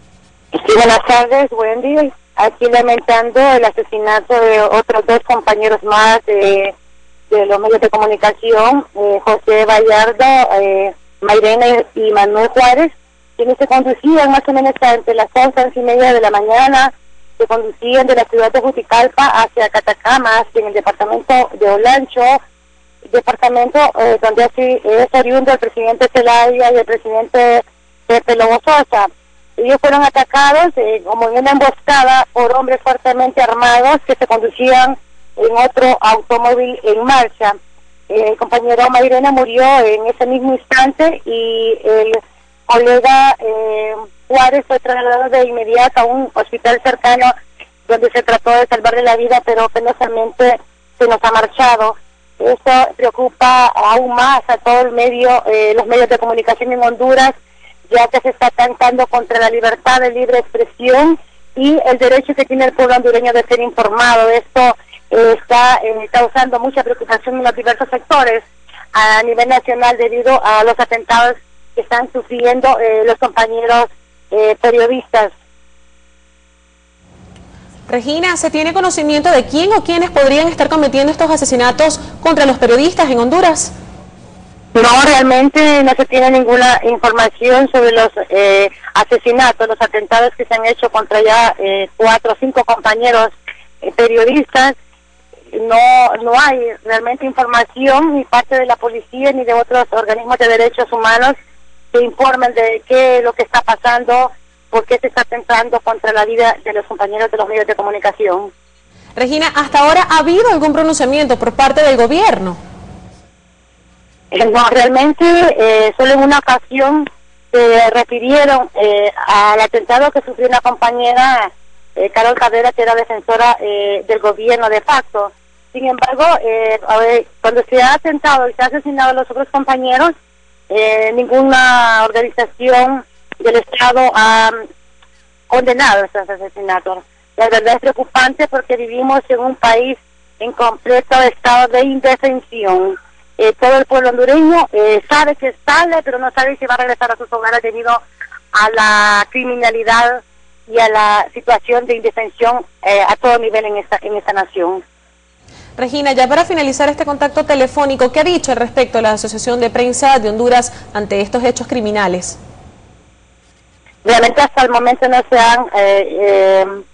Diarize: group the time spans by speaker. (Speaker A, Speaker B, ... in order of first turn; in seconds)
Speaker A: 0.5-6.7, 7.3-22.4, 23.1-37.5, 38.1-47.3, 47.9-57.3, 57.9-75.3, 84.7-94.7, 95.5-101.3, 101.9-108.5, 114.3-130.1, 130.7-134.6, 135.5-148.0, 148.5-154.8, 164.0-166.8
Speaker B: 77.9-83.7, 109.2-112.6, 155.8-162.4